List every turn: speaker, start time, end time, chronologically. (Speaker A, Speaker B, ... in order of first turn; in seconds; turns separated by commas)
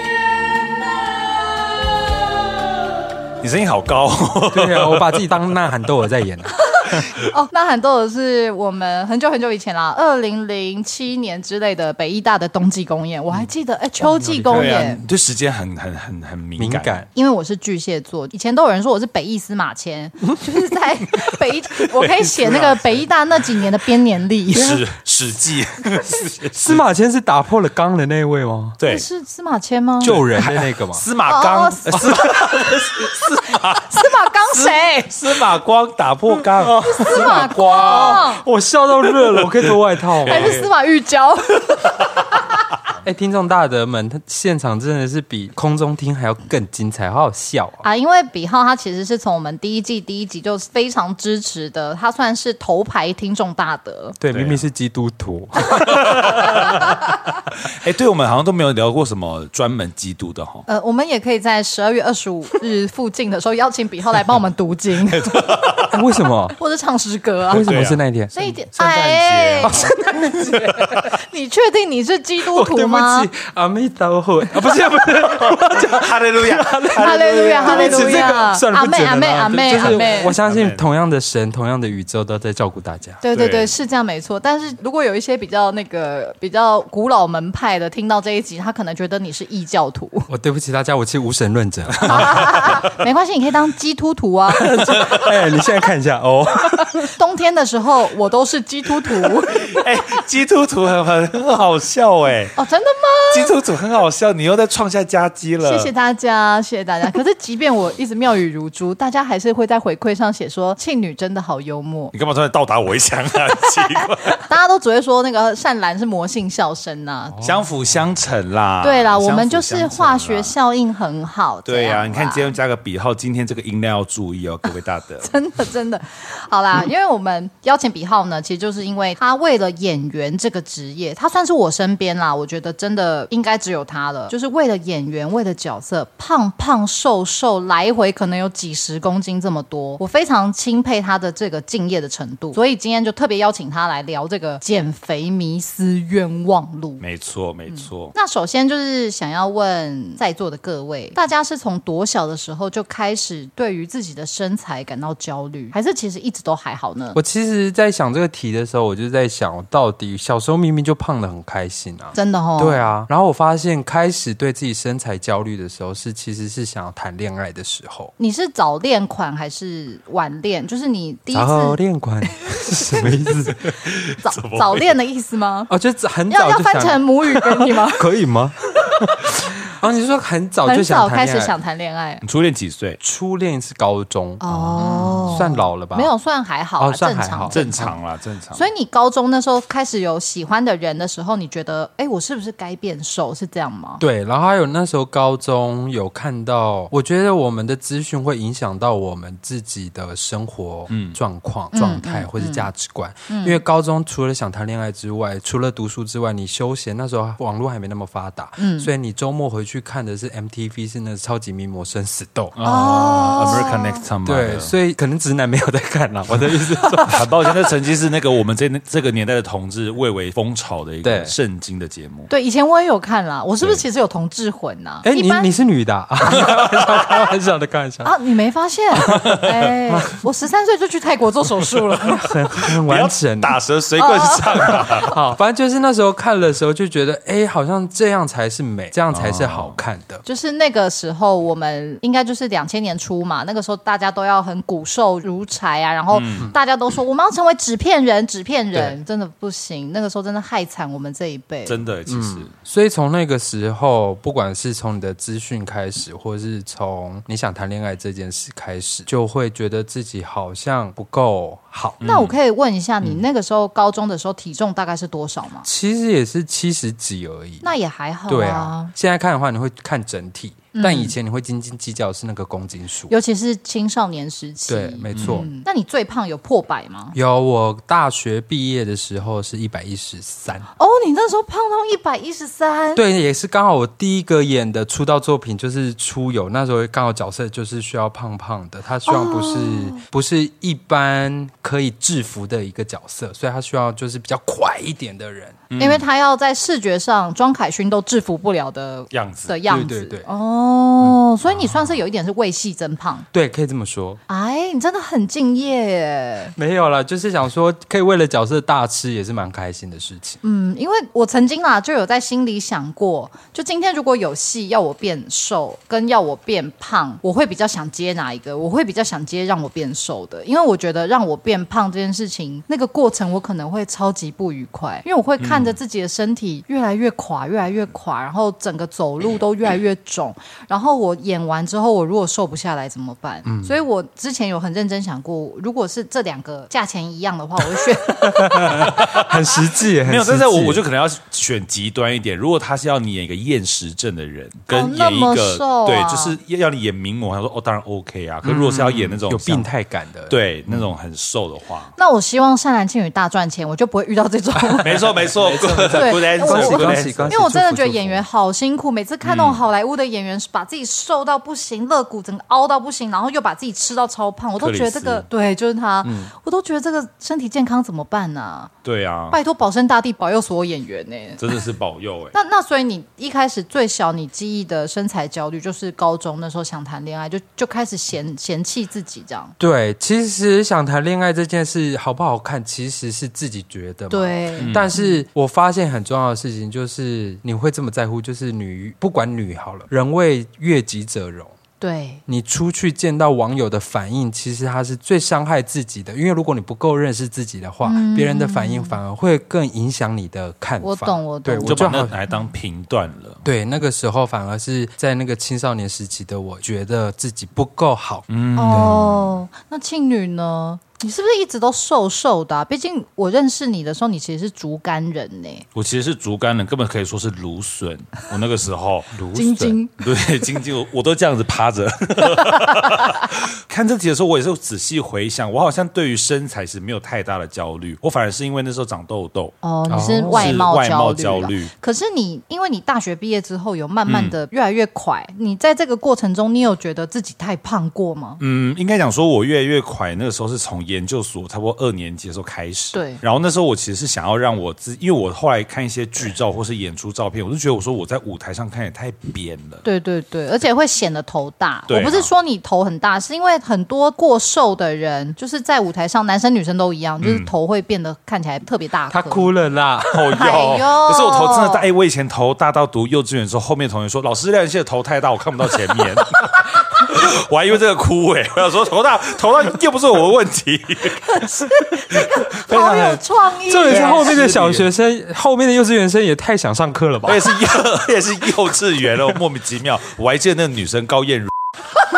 Speaker A: 3.4-5.3, Speaker B: 4.5-6.6, Speaker C: 6.7-15.0, Speaker B: 14.0-14.9, Speaker A: 14.5-17.0, Speaker B: 16.6-17.1, Speaker C: 17.1-24.8, Speaker A: 21.9-22.8, Speaker A: 24.5-26.8, Speaker B: 26.5-28.8, Speaker A: 28.8-29.1, Speaker C: 28.9-30.2, Speaker B: 30.0-31.1, Speaker A: 30.0-38.2, Speaker C: 31.2-32.3, Speaker B: 31.9-32.4, Speaker C: 33.7-35.2, Speaker B: 36.5-40.6, Speaker C: 36.8-38.5, Speaker A: 39.2-39.7, Speaker A: 40.2-40.7, Speaker C: 40.2-42.1, Speaker B: 43.0-47.8, Speaker C: 47.8-54.2, Speaker B: 54.2-57.0, Speaker A: 54.3-54.6, Speaker A: 55.7-57.0, Speaker A: 57.5-60.7, Speaker C: 60.7-65.8, Speaker A: 65.1-66.0, Speaker B: 65.9-66.6, Speaker C: 66.6-67.7, Speaker B: 67.5-68.3, Speaker A: 67.5-68.0, Speaker C: 68.3-70.2, Speaker A: 68.8-69.9, Speaker B: 69.6-71.1, Speaker C: 71.0-73.3, Speaker B: 72.5-83.2, Speaker A: 75.0-78.5, Speaker C: 76.9-80.4, Speaker A: 79.7-80.8, Speaker C: 83.2-90.3, Speaker A: 83.3-83.7, Speaker B: 90.3-92.9, Speaker C: 92.0-95.0, Speaker B: 94.5-97.1, Speaker A: 94.9-95.3, Speaker C: 97.2-99.8, Speaker A: 99.5-102.6, Speaker C: 102.6-103.5, Speaker A: 103.3-105.9, Speaker C: 105.6-112.1, Speaker A: 112.1-114.4, Speaker C: 114.4-117.4, Speaker A: 117.4-120.5, Speaker C: 118.8-122.5, Speaker A: 121.7-125.3, Speaker C: 125.2-147.0, Speaker A: 147.0-148.2, Speaker C: 147.7-157.2, Speaker B: 157.2-168.1, Speaker C: 162.1-162.9, Speaker C: 168.2-171.8, Speaker B: 171.3-173.6, Speaker C: 172.5-173.1, Speaker A: 173.7-175.0, Speaker C: 174.2-175.7, Speaker B: 175.7-181.5, Speaker C: 176.3-178.0, Speaker C: 180.7-182.2, Speaker A: 182.2-183.0, Speaker B: 183.0-186.1, Speaker C: 184.4-187.9, Speaker A: 184.8-185.4, Speaker B: 186.8-187.9, Speaker A: 187.5-188.7, Speaker C: 188.5-194.0, Speaker B: 194.0-212.5, Speaker A: 200.9-201.2, Speaker C: 201.7-202.7, Speaker C: 203.3-203.6, Speaker C: 208.6-208.9, Speaker A: 212.6-214.7, Speaker C: 212.6-214.0, Speaker B: 214.2-217.3, Speaker A: 217.1-222.3, Speaker B: 221.0-221.3, Speaker C: 222.3-225.5, Speaker B: 225.0-228.1, Speaker C: 228.0-232.3, Speaker B: 229.0-229.4, Speaker B: 229.9-230.2, Speaker B: 232.0-233.6, Speaker A: 232.6-235.1, Speaker C: 234.0-235.1, Speaker B: 234.8-240.2, Speaker A: 239.1-239.8, Speaker C: 240.2-251.8, Speaker A: 246.1-246.5, Speaker A: 251.7-252.5, Speaker B: 252.1-262.0, Speaker A: 262.0-262.4, Speaker C: 262.0-265.7, Speaker B: 265.6-267.7, Speaker C: 267.6-268.9, Speaker B: 268.3-273.1, Speaker C: 270.7-271.1, Speaker C: 273.1-277.1, Speaker B: 274.7-275.5, Speaker A: 275.1-275.5, Speaker B: 277.1-280.7, Speaker C: 280.8-283.0, Speaker B: 282.9-295.6, Speaker C: 289.1-290.0, Speaker A: 295.7-296.0, Speaker C: 295.8-303.2, Speaker A: 299.1-299.6, Speaker B: 299.7-300.3, Speaker B: 301.0-301.8, Speaker B: 303.3-304.2, Speaker C: 304.3-306.5, Speaker B: 306.6-310.4, Speaker C: 310.4-339.2, Speaker A: 325.4-325.8, Speaker B: 333.5-333.8, Speaker B: 338.1-340.8, Speaker A: 338.8-339.4, Speaker A: 340.0-349.7, Speaker C: 344.7-346.4, Speaker B: 348.4-350.9, Speaker A: 350.3-351.9, Speaker C: 352.0-355.2, Speaker B: 354.6-358.2, Speaker A: 354.8-357.4, Speaker C: 355.9-368.7, Speaker A: 359.2-359.6, Speaker A: 364.6-365.2, Speaker B: 366.0-366.3, Speaker A: 368.8-369.4, Speaker C: 369.3-371.4, Speaker A: 371.4-372.3, Speaker C: 372.3-379.5, Speaker B: 379.6-391.6, Speaker C: 384.1-385.2, Speaker A: 384.6-384.9, Speaker C: 391.8-392.2, Speaker B: 392.3-402.1, Speaker C: 397.9-399.0, Speaker C: 400.8-402.4, Speaker A: 401.6-403.4, Speaker B: 403.4-409.2, Speaker A: 408.3-409.1, Speaker C: 408.5-415.7, Speaker A: 415.8-419.2, Speaker B: 419.1-419.8, Speaker C: 419.4-419.9, Speaker A: 420.0-429.6, Speaker C: 429.6-438.4, Speaker B: 429.9-430.6, Speaker A: 430.3-431.7, Speaker A: 434.1-434.4, Speaker A: 438.4-449.9, Speaker C: 442.9-443.2, Speaker C: 449.8-459.5, Speaker A: 451.9-452.3, Speaker A: 457.2-457.5, Speaker B: 459.1-460.3, Speaker A: 460.1-471.5, Speaker C: 460.3-461.9, Speaker C: 471.2-474.4, Speaker A: 472.1-473.2, Speaker B: 473.7-477.8, Speaker A: 473.8-474.9, Speaker A: 477.2-481.5